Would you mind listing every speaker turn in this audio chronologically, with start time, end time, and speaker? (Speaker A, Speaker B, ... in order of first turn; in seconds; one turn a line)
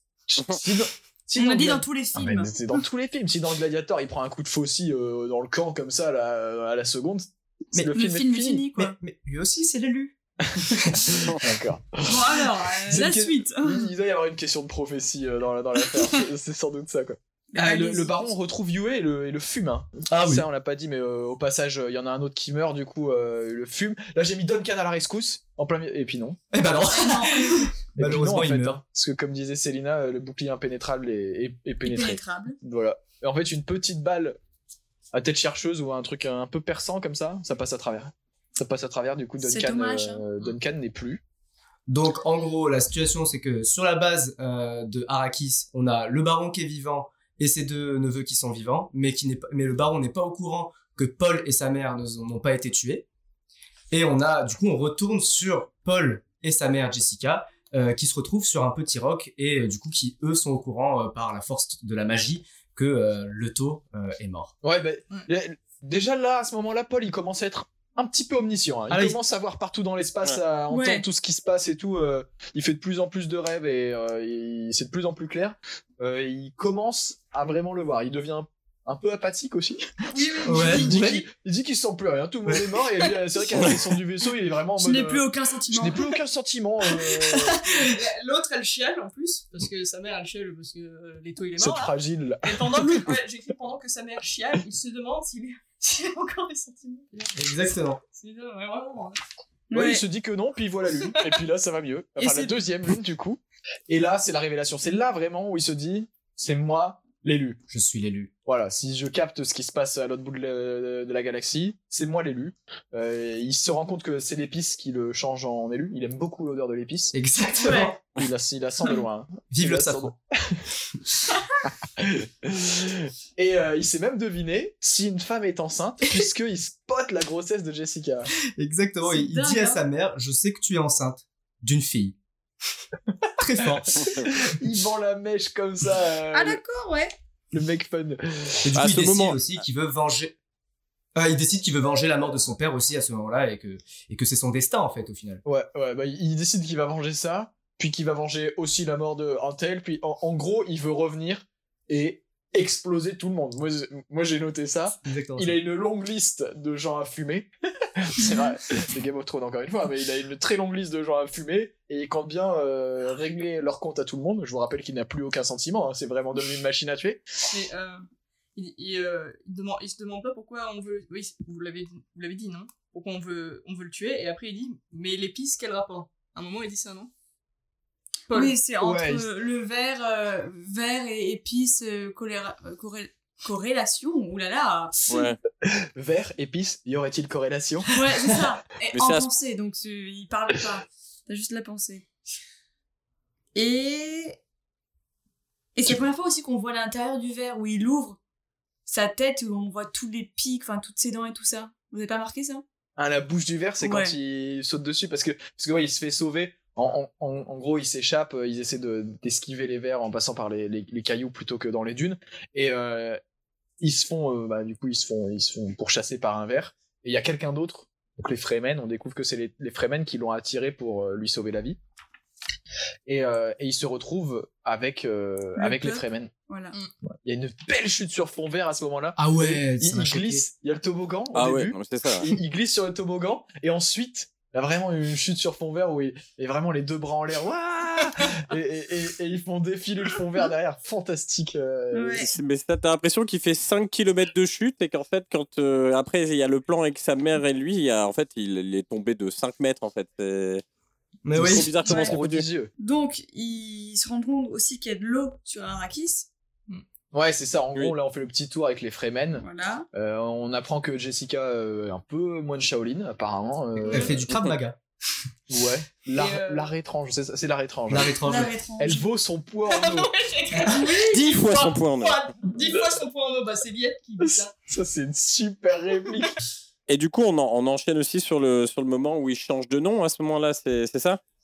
Speaker A: 0.3-8.7
Speaker B: 1.4-2.8
Speaker B: 7.9-9.0
Speaker C: 8.8-10.2
Speaker A: 10.5-26.4
Speaker C: 10.7-11.0
Speaker B: 12.0-13.9
Speaker B: 17.5-18.3
Speaker C: 20.1-20.5
Speaker C: 26.5-28.8
Speaker B: 26.9-27.7
Speaker A: 27.9-34.4
Speaker B: 31.9-32.6
Speaker A: 35.1-41.2
Speaker B: 39.4-40.2
Speaker C: 41.9-53.1
Speaker C: 53.9-64.5
Speaker A: 64.6-87.6
Speaker C: 68.9-69.2
Speaker B: 70.7-71.0
Speaker B: 80.1-81.1
Speaker C: 80.5-81.2
Speaker B: 84.8-86.1
Speaker D: 87.8-97.5
Speaker A: 91.6-93.0
Speaker C: 97.3-98.0
Speaker D: 98.0-99.2
Speaker B: 99.7-100.0
Speaker A: 99.7-107.6
Speaker B: 102.2-102.6
Speaker C: 107.7-108.3
Speaker A: 108.5-117.1
Speaker C: 117.1-118.0
Speaker B: 117.6-117.9
Speaker A: 118.1-120.7
Speaker C: 119.5-120.1
Speaker A: 122.0-128.3
Speaker C: 128.6-132.2
Speaker B: 129.1-129.8
Speaker C: 133.4-134.3
Speaker A: 133.6-136.6
Speaker B: 136.3-137.1
Speaker A: 137.5-138.7
Speaker C: 138.6-140.3
Speaker E: 138.8-139.4
Speaker C: 141.2-145.4
Speaker A: 145.4-167.2
Speaker C: 155.0-155.6
Speaker D: 167.5-177.1
Speaker D: 178.3-178.6
Speaker B: 178.3-185.2
Speaker A: 178.8-179.3
Speaker E: 185.1-185.4
Speaker A: 185.6-188.4
Speaker B: 187.9-192.1
Speaker E: 188.9-189.3
Speaker B: 193.5-194.4
Speaker B: 195.8-198.2
Speaker B: 198.9-202.6
Speaker A: 203.0-213.2
Speaker B: 203.8-204.2
Speaker A: 213.8-221.8
Speaker A: 223.1-226.3
Speaker B: 225.6-226.8
Speaker A: 227.2-242.3
Speaker C: 229.2-230.4
Speaker E: 231.3-232.3
Speaker B: 241.9-242.3
Speaker E: 242.2-250.6
Speaker C: 251.3-251.7
Speaker A: 251.3-252.7
Speaker E: 251.4-252.4
Speaker B: 251.8-252.2
Speaker B: 252.8-256.3
Speaker A: 257.1-264.2
Speaker B: 259.4-259.9
Speaker C: 263.9-264.8
Speaker E: 264.3-264.6
Speaker A: 265.5-268.1
Speaker D: 266.1-266.7
Speaker C: 267.9-268.6
Speaker B: 268.2-269.1
Speaker A: 268.8-270.1
Speaker D: 269.7-274.5
Speaker C: 270.5-270.8
Speaker B: 270.8-271.1
Speaker E: 271.1-272.3
Speaker A: 274.2-276.3
Speaker E: 276.9-281.2